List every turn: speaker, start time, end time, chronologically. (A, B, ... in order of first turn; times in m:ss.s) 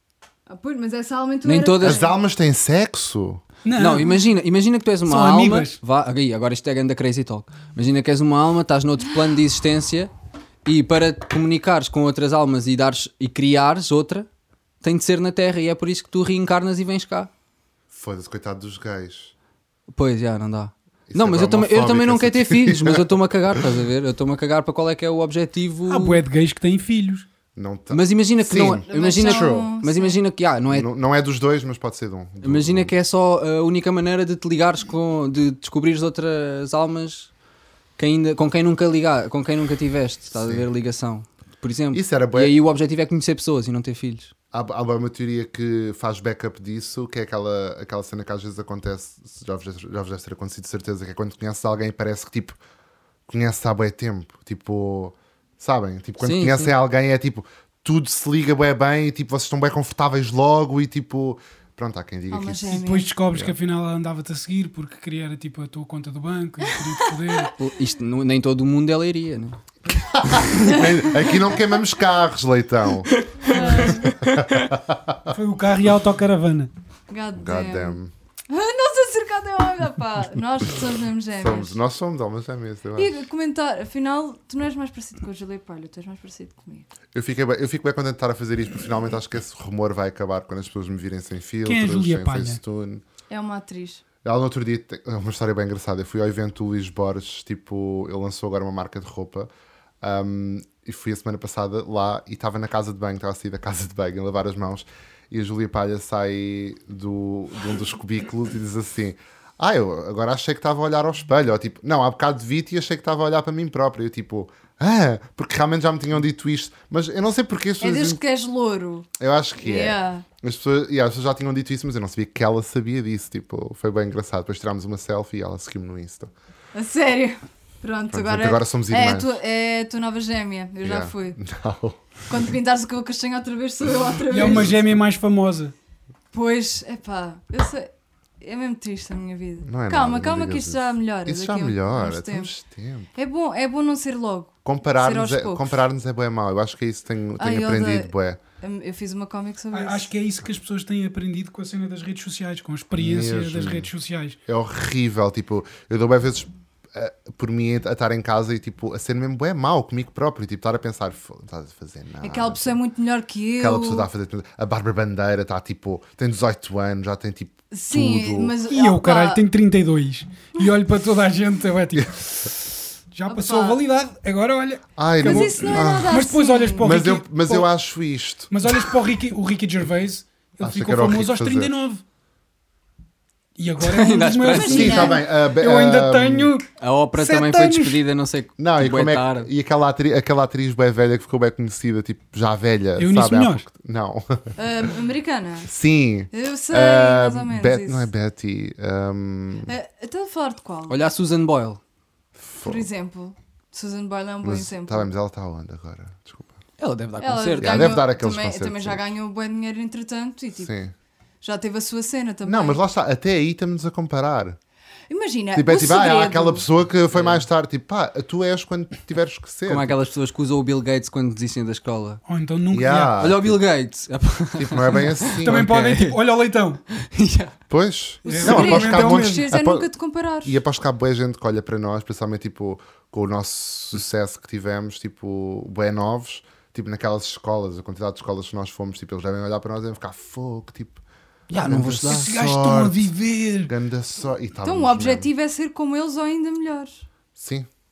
0:00.5-0:02.2 A
0:01.4-0:02.0 B
0:01.8-0:03.4 C
0:03.6-0:04.2 D
0:03.8-0:10.1 B
0:05.0-0:05.8 D
0:10.6-0:14.3 B
0:14.8-0:17.3 B
0:17.9-0:19.3 C
0:19.9-0:26.2 B
0:21.1-0:23.6 C
0:25.9-0:27.3 D
0:27.5-0:29.7 C
0:27.9-0:30.9 B
0:28.9-0:30.2 A
0:30.7-0:32.9 C
0:32.4-0:37.3 B
0:38.0-0:44.3 B
0:40.3-0:40.7 C
0:41.9-0:42.5 C
0:44.5-0:52.6 C
0:53.3-1:02.8 C
0:56.2-0:56.7 B
1:02.3-1:03.1 A
1:02.7-1:07.5 D
1:07.0-1:07.5 A
1:07.6-1:09.6 B
1:10.1-1:13.6 C
1:13.1-1:14.7 B
1:13.4-1:14.1 A
1:14.2-1:15.3 C
1:15.3-1:16.7 D
1:17.1-1:18.0 A
1:17.4-1:18.1 C
1:18.5-1:21.8 A
1:21.4-1:23.2 C
1:23.0-1:26.9 A
1:27.1-1:33.0 C
1:31.6-1:32.6 D
1:33.3-1:34.0 A
1:34.2-1:39.5 C
1:40.0-1:58.2 C
1:57.8-1:59.1 A
1:59.2-2:06.3 C
1:59.6-2:00.2 A
2:06.7-2:11.4 A
2:08.1-2:09.3 C
2:10.8-2:12.2 C
2:12.3-2:14.7 A
2:14.3-2:15.7 D
2:14.5-2:14.7 C
2:16.3-2:17.9 A
2:18.4-2:22.5 A
2:19.6-2:23.1 C
2:23.1-2:25.8 A
2:24.6-2:28.4 C
2:27.4-2:30.1 A
2:29.7-2:34.4 D
2:33.0-2:33.9 C
2:34.5-2:42.8 C
2:42.2-2:44.1 A
2:43.6-2:48.5 C
2:47.7-2:49.4 A
2:48.7-2:57.7 D
2:53.2-2:53.8 A
2:55.0-2:56.2 C
2:55.2-2:57.0 A
2:56.8-2:58.8 C
2:58.5-3:02.0 D
3:00.6-3:01.8 C
3:03.6-3:08.0 D
3:03.8-3:05.2 B
3:04.5-3:05.2 A
3:04.6-3:06.5 C
3:06.8-3:09.5 B
3:08.6-3:14.5 C
3:13.0-3:13.6 D
3:14.6-3:15.7 A
3:15.7-3:19.7 C
3:16.3-3:18.1 A
3:19.7-3:21.0 A
3:20.9-3:21.8 B
3:22.4-3:22.9 C
3:22.6-3:25.1 A
3:24.4-3:26.5 C
3:26.8-3:28.0 B
3:27.2-3:30.7 A
3:27.6-3:29.1 C
3:30.6-3:30.9 C
3:31.4-3:32.8 A
3:32.4-3:34.6 C
3:35.1-3:36.6 A
3:35.5-3:40.0 C
3:37.1-3:37.4 B
3:39.7-3:42.2 B
3:42.2-3:43.3 D
3:42.7-3:43.6 C
3:43.2-3:46.2 B
3:44.5-3:45.6 C
3:45.4-3:46.8 D
3:46.9-3:47.6 B
3:47.7-3:49.9 C
3:48.2-3:49.5 D
3:48.2-3:50.6 A
3:50.4-4:01.0 C
4:01.5-4:02.3 B
4:01.6-4:03.1 C
4:02.0-4:03.7 D
4:03.6-4:05.3 C
4:04.6-4:07.0 A
4:07.4-4:07.7 C